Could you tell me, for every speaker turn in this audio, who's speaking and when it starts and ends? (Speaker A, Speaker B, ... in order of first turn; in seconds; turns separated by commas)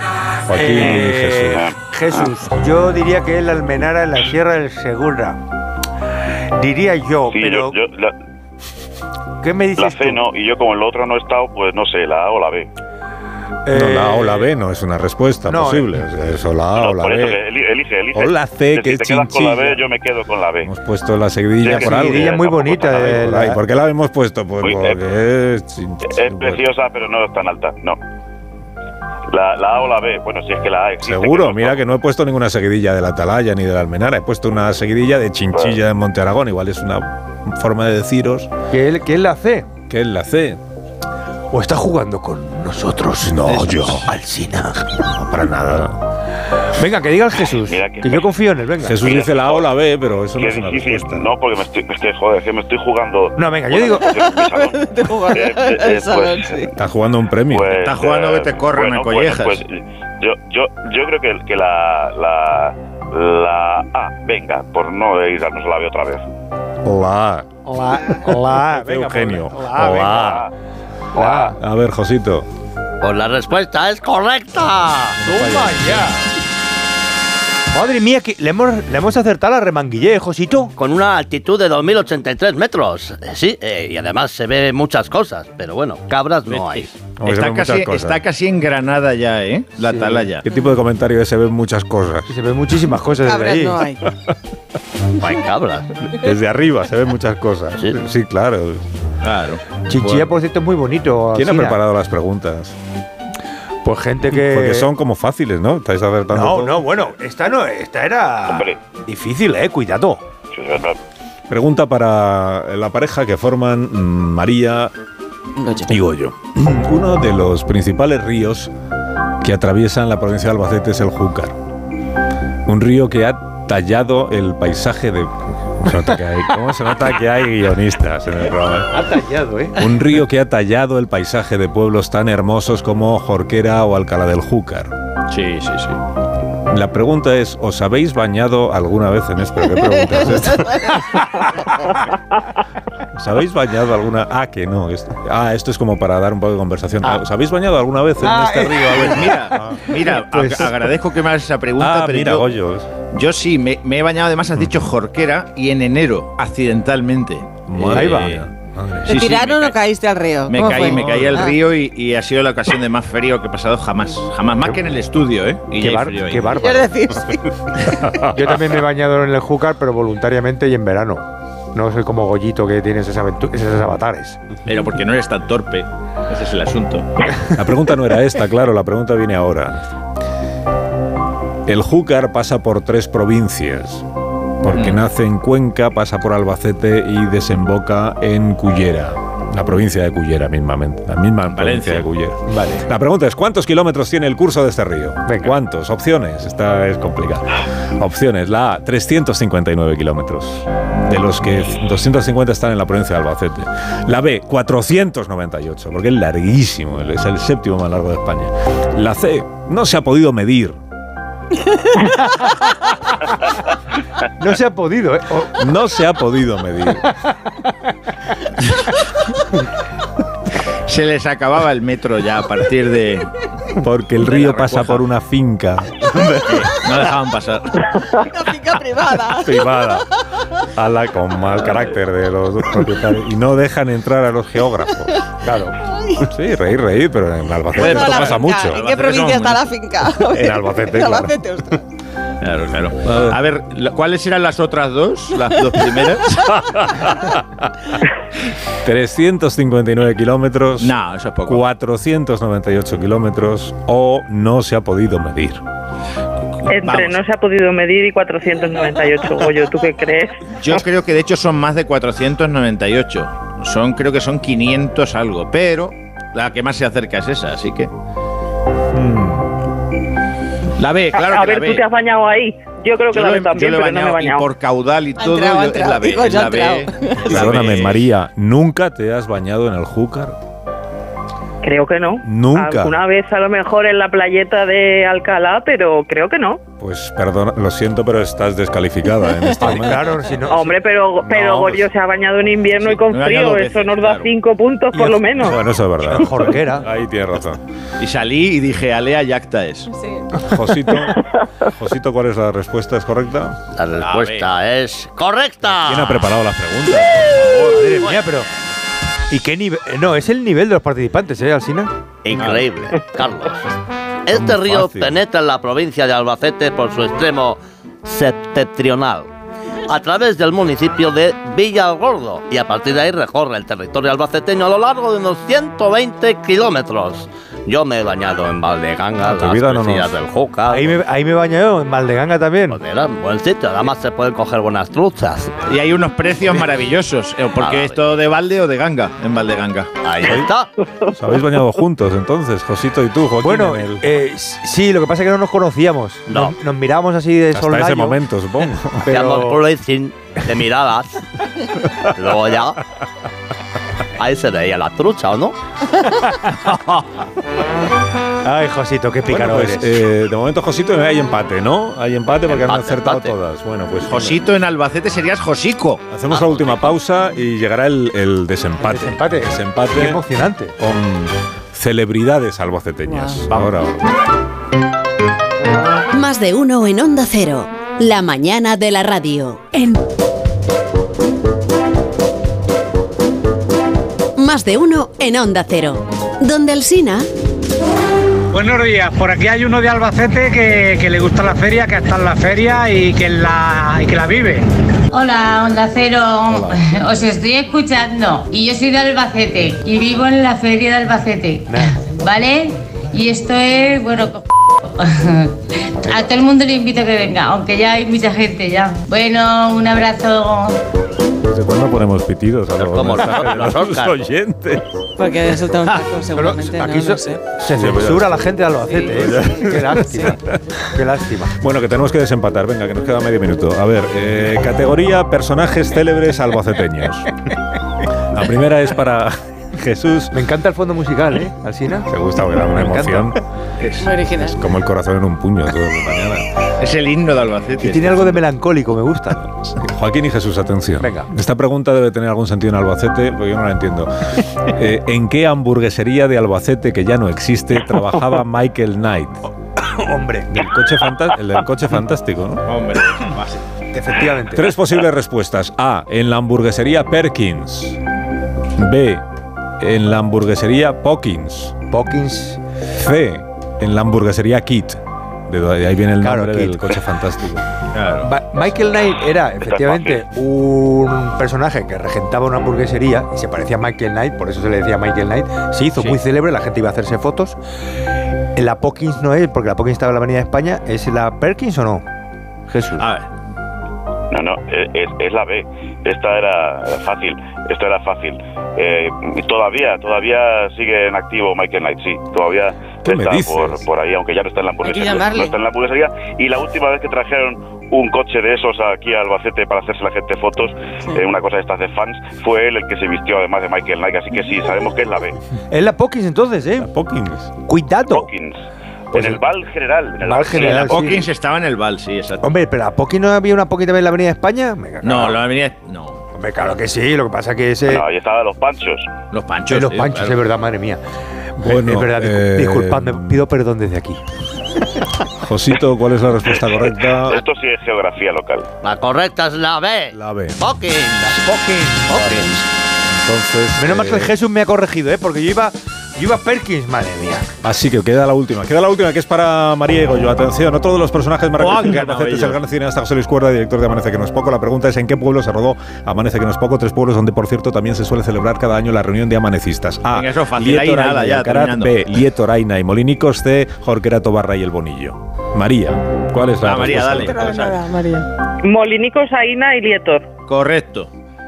Speaker A: 0.4-1.7, Speaker B: 0.5-5.4, Speaker C: 1.5-2.3, Speaker B: 6.6-7.8, Speaker C: 7.3-8.2, Speaker B: 9.4-10.2, Speaker C: 9.8-12.7, Speaker B: 13.7-14.5, Speaker A: 13.7-17.4, Speaker B: 15.5-16.0, Speaker C: 16.8-20.7, Speaker A: 18.1-19.9, Speaker A: 20.6-26.6, Speaker C: 21.6-23.2, Speaker B: 21.7-23.6, Speaker C: 24.6-25.0, Speaker C: 26.1-28.0, Speaker C: 29.3-31.8, Speaker A: 31.0-38.5, Speaker B: 38.7-39.7, Speaker A: 39.9-40.6, Speaker B: 41.5-45.0, Speaker A: 43.2-44.1, Speaker A: 45.0-46.0, Speaker B: 46.7-49.0, Speaker C: 47.7-48.2, Speaker A: 48.8-51.3, Speaker C: 49.0-49.7, Speaker C: 50.4-56.7, Speaker B: 53.4-54.1, Speaker D: 54.2-56.7, Speaker A: 56.7-57.8, Speaker C: 57.5-66.2, Speaker E: 57.7-59.6, Speaker A: 66.8-67.5, Speaker B: 67.7-70.3, Speaker A: 68.2-70.5, Speaker C: 69.8-70.5, Speaker B: 71.1-71.6, Speaker A: 71.4-72.5, Speaker F: 73.0-75.2, Speaker B: 75.2-76.2, Speaker A: 75.2-76.1, Speaker B: 77.7-80.7, Speaker F: 80.8-87.0, Speaker E: 86.5-90.5, Speaker A: 87.2-88.2, Speaker B: 89.9-90.2, Speaker A: 90.4-92.3, Speaker B: 92.3-93.8, Speaker D: 93.2-94.1, Speaker F: 95.2-96.1, Speaker A: 96.1-98.8, Speaker E: 99.2-100.3, Speaker B: 99.9-101.8, Speaker A: 101.3-102.8, Speaker B: 103.8-104.9, Speaker A: 104.2-107.1, Speaker B: 106.3-110.2, Speaker C: 108.5-108.8, Speaker C: 110.5-111.0, Speaker A: 111.5-114.9, Speaker A: 115.9-118.7, Speaker A: 119.4-121.6, Speaker A: 122.7-128.9, Speaker B: 128.9-130.0, Speaker A: 129.8-134.9, Speaker E: 135.3-136.0, Speaker A: 136.7-141.3, Speaker A: 143.1-149.9, Speaker B: 148.2-150.7, Speaker E: 149.0-152.5, Speaker A: 151.8-152.9, Speaker E: 153.1-158.5, Speaker A: 157.7-159.2, Speaker B: 157.9-158.3, Speaker D: 159.1-161.6, Speaker E: 159.1-159.8, Speaker E: 160.5-166.6, Speaker A: 160.6-161.5, Speaker B: 165.8-167.2, Speaker D: 166.6-167.6, Speaker A: 167.9-168.6, Speaker B: 168.2-174.4, Speaker E: 174.7-177.1, Speaker A: 177.5-179.9, Speaker A: 181.7-184.1, Speaker A: 184.6-210.8, Speaker E: 184.7-185.0, Speaker E: 191.5-192.1, Speaker B: 192.5-192.9, Speaker B: 195.3-195.6, Speaker B: 212.2-212.5, Speaker B: 214.4-215.6, Speaker A: 215.6-217.1, Speaker B: 217.2-217.7, Speaker E: 220.9-223.3, Speaker A: 223.8-226.2, Speaker E: 224.2-225.1, Speaker E: 226.4-228.2, Speaker D: 228.2-229.8, Speaker A: 229.3-230.1, Speaker A: 230.7-235.2, Speaker B: 235.4-235.8, Speaker D: 236.0-236.3, Speaker A: 236.2-238.8, Speaker D: 237.8-241.8, Speaker E: 237.8-239.7, Speaker A: 240.2-241.4, Speaker E: 242.4-246.6, Speaker A: 243.0-243.4, Speaker A: 246.5-247.7, Speaker A: 248.8-250.9, Speaker E: 250.8-251.6, Speaker A: 251.5-255.6, Speaker G: 256.7-260.6, Speaker E: 256.7-257.2, Speaker E: 260.6-267.9, Speaker A: 268.9-269.6, Speaker E: 270.8-271.9, Speaker G: 271.1-274.5, Speaker E: 273.1-278.1, Speaker D: 275.2-277.6, Speaker A: 277.3-280.4, Speaker G: 281.6-286.6, Speaker A: 282.2-283.0, Speaker A: 286.8-290.3, Speaker B: 289.6-290.8, Speaker G: 290.4-295.6, Speaker A: 291.2-291.9, Speaker E: 292.8-294.3, Speaker B: 294.9-296.9, Speaker A: 295.4-297.6, Speaker E: 298.0-299.9, Speaker D: 299.9-300.4, Speaker A: 300.4-303.6, Speaker F: 303.7-306.3, Speaker E: 304.0-304.5, Speaker A: 305.8-307.5, Speaker E: 307.4-307.7, Speaker B: 307.7-308.5, Speaker F: 307.9-308.5, Speaker B: 309.3-311.9, Speaker F: 312.2-313.7, Speaker E: 312.4-312.6, Speaker F: 314.3-319.3, Speaker A: 314.3-315.1, Speaker F: 319.9-331.0, Speaker A: 329.2-330.2, Speaker B: 330.7-332.8, Speaker F: 332.7-335.6, Speaker E: 335.7-339.9, Speaker F: 337.6-338.0, Speaker F: 340.0-340.7, Speaker A: 340.2-340.5, Speaker A: 341.1-344.1, Speaker B: 343.4-348.2, Speaker F: 346.3-346.6, Speaker A: 347.5-349.1, Speaker B: 349.0-349.6, Speaker F: 349.1-351.2, Speaker F: 351.8-352.8, Speaker F: 354.2-355.6, Speaker B: 356.1-356.8, Speaker B: 358.4-360.0, Speaker A: 359.3-364.4, Speaker F: 362.5-363.3, Speaker E: 364.1-366.1, Speaker A: 366.1-370.2, Speaker F: 366.3-366.8, Speaker B: 368.8-370.8, Speaker A: 370.8-374.1, Speaker D: 373.1-373.4, Speaker H: 376.1-380.0, Speaker H: 384.4-387.3, Speaker I: 388.5-394.7, Speaker J: 395.1-410.8, Speaker A: 396.5-396.8, Speaker B: 401.7-402.0, Speaker B: 406.1-406.3, Speaker A: 411.4-414.9, Speaker F: 412.7-414.2, Speaker D: 415.2-417.4, Speaker B: 416.3-421.6, Speaker A: 417.6-420.8, Speaker D: 418.8-419.8, Speaker A: 421.5-427.4, Speaker A: 428.3-430.4, Speaker B: 430.3-432.1, Speaker A: 432.1-433.4, Speaker B: 432.7-433.3, Speaker E: 433.8-434.1, Speaker D: 434.0-434.6, Speaker A: 434.5-436.5, Speaker E: 436.8-438.4, Speaker B: 437.8-439.5, Speaker A: 439.7-449.4, Speaker B: 441.0-441.3, Speaker B: 449.8-450.5, Speaker A: 450.5-452.7, Speaker E: 452.7-453.6, Speaker B: 453.9-454.7, Speaker A: 454.5-458.0, Speaker A: 458.8-459.3, Speaker A: 459.8-461.8, Speaker B: 461.9-462.6, Speaker A: 462.9-467.6, Speaker B: 466.2-467.0, Speaker E: 467.9-468.3, Speaker B: 468.2-477.6, Speaker C: 469.6-470.2, Speaker B: 478.6-482.1, Speaker B: 482.7-483.1, Speaker E: 483.0-483.3, Speaker C: 484.3-505.4, Speaker A: 493.1-493.8, Speaker D: 494.8-495.6, Speaker B: 505.7-506.9, Speaker A: 506.8-507.5, Speaker B: 507.6-508.3, Speaker C: 508.1-508.6, Speaker C: 509.1-511.2, Speaker B: 509.1-509.4, Speaker B: 510.2-511.3, Speaker E: 510.6-512.6, Speaker B: 512.4-515.4, Speaker E: 515.0-516.2, Speaker B: 516.3-518.0, Speaker C: 517.9-519.1, Speaker E: 519.3-520.4, Speaker B: 519.7-521.0, Speaker B: 521.6-524.2, Speaker A: 521.6-523.4, Speaker A: 525.4-527.4, Speaker C: 526.8-528.7, Speaker F: 528.8-531.5, Speaker A: 530.1-530.6, Speaker B: 531.2-532.6, Speaker F: 532.1-532.6, Speaker A: 532.2-534.3, Speaker B: 533.8-537.5, Speaker A: 537.6-557.5, Speaker E: 541.6-542.6, Speaker E: 550.1-552.0, Speaker E: 556.6-557.8, Speaker D: 557.2-558.3, Speaker G: 558.6-560.3, Speaker E: 560.5-561.1